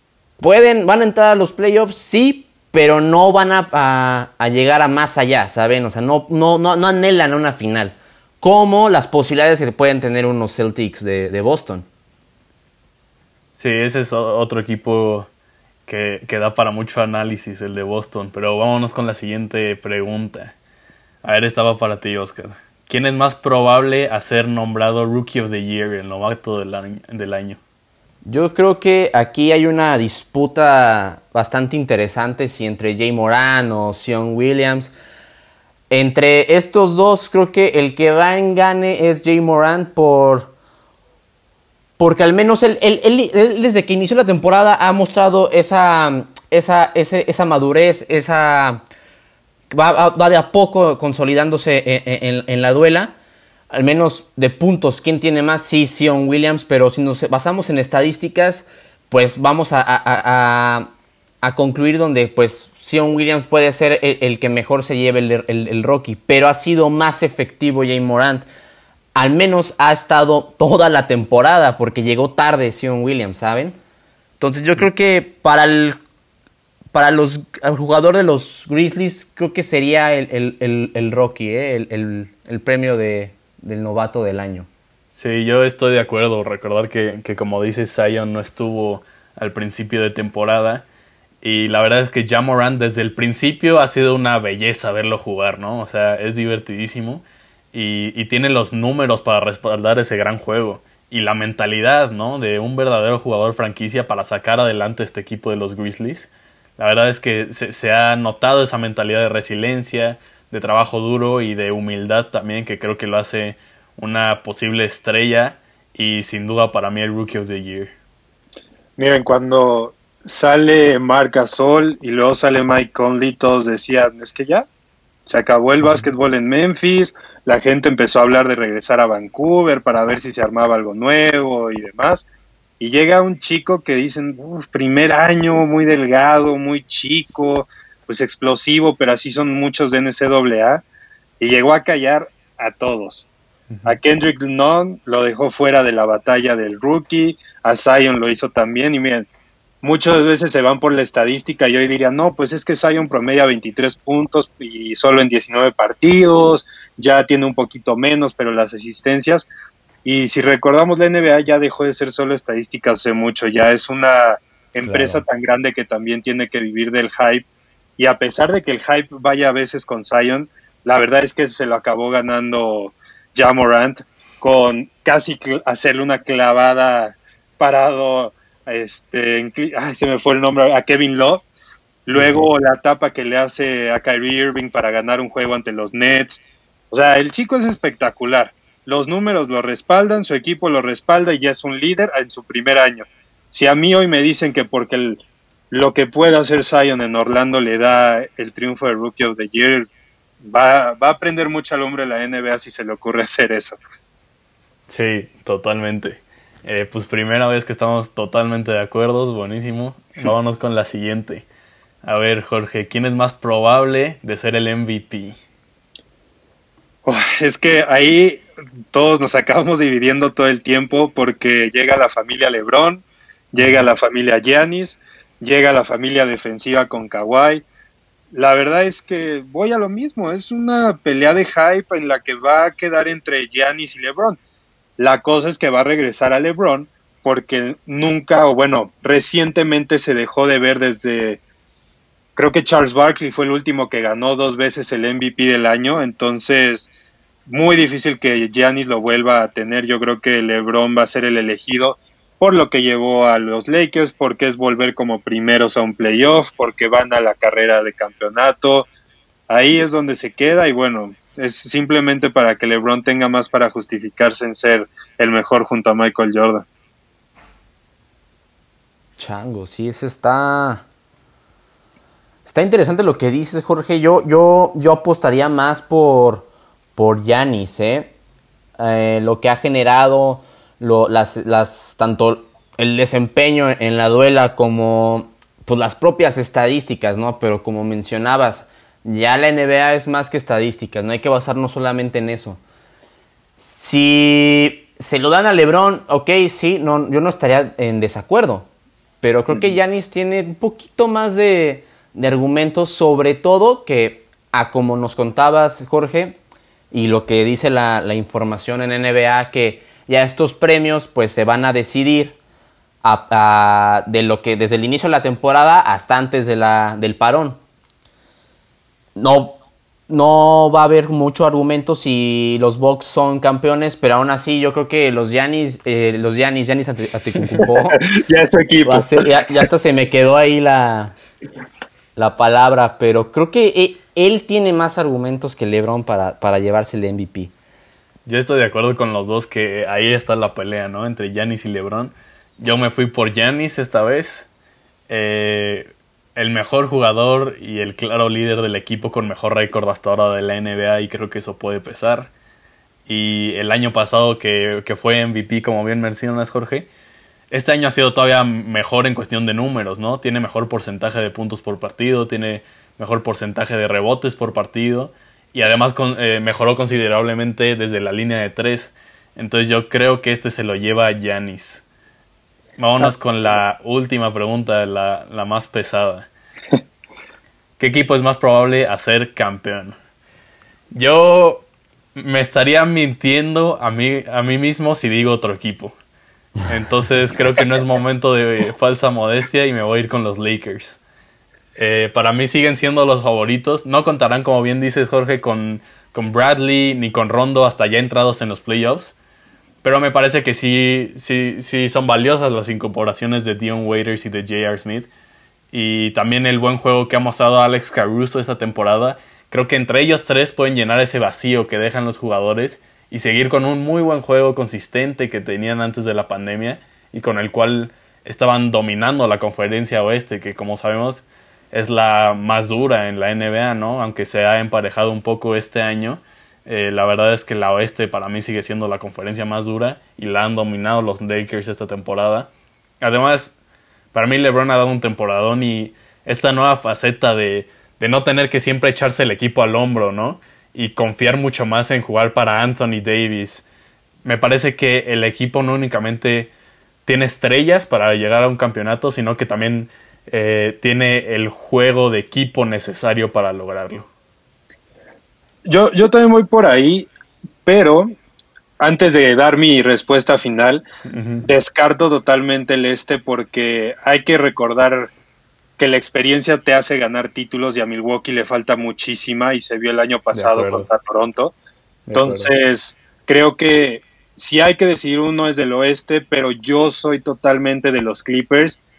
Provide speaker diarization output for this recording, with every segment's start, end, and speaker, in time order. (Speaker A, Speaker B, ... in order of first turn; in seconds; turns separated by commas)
Speaker A: 0.4-11.9, Speaker B: 13.6-15.3, Speaker B: 15.8-20.5, Speaker B: 21.2-27.6, Speaker A: 28.2-34.9, Speaker A: 35.9-40.5, Speaker A: 42.0-48.8, Speaker A: 49.7-53.1, Speaker A: 53.7-60.9, Speaker A: 61.4-68.5, Speaker A: 69.1-73.8, Speaker A: 74.4-76.0, Speaker A: 76.9-84.7, Speaker B: 85.1-90.8, Speaker B: 91.4-117.9, Speaker C: 119.0-124.7, Speaker C: 125.3-132.3, Speaker C: 132.8-140.8, Speaker C: 141.4-143.3, Speaker B: 143.7-144.0, Speaker C: 143.8-149.3, Speaker C: 149.8-159.5, Speaker C: 160.0-167.4, Speaker B: 164.8-165.2, Speaker C: 168.0-181.4, Speaker C: 182.1-199.9, Speaker B: 182.1-182.5, Speaker C: 200.4-203.8, Speaker B: 204.9-211.4, Speaker B: 212.0-215.4, Speaker C: 217.0-227.7, Speaker C: 228.3-234.4, Speaker C: 235.0-241.4, Speaker C: 242.3-246.9, Speaker C: 247.5-258.9, Speaker C: 259.5-266.6, Speaker A: 269.2-270.8, Speaker A: 272.4-278.1, Speaker A: 278.8-292.6, Speaker A: 293.6-298.7, Speaker A: 299.2-306.4, Speaker C: 299.5-299.8, Speaker A: 306.9-312.4, Speaker A: 313.0-317.6, Speaker A: 319.1-328.0, Speaker C: 327.5-329.2, Speaker A: 328.8-331.1, Speaker A: 332.1-337.5, Speaker B: 338.2-344.5, Speaker B: 345.1-352.3, Speaker B: 353.1-356.9, Speaker B: 357.5-371.8, Speaker B: 372.8-376.3, Speaker B: 377.8-380.0, Speaker B: 380.9-385.9, Speaker B: 386.6-391.0, Speaker B: 391.8-399.1, Speaker B: 399.8-405.1, Speaker B: 405.7-432.5, Speaker B: 433.0-433.5, Speaker B: 434.1-443.6, Speaker B: 444.2-446.5, Speaker B: 447.0-454.1, Speaker C: 455.7-457.1, Speaker C: 457.6-458.1, Speaker C: 458.8-460.9, Speaker B: 461.1-461.5, Speaker C: 461.5-465.1, Speaker C: 465.8-471.5, Speaker B: 470.3-470.9, Speaker B: 472.1-472.5, Speaker C: 472.1-478.8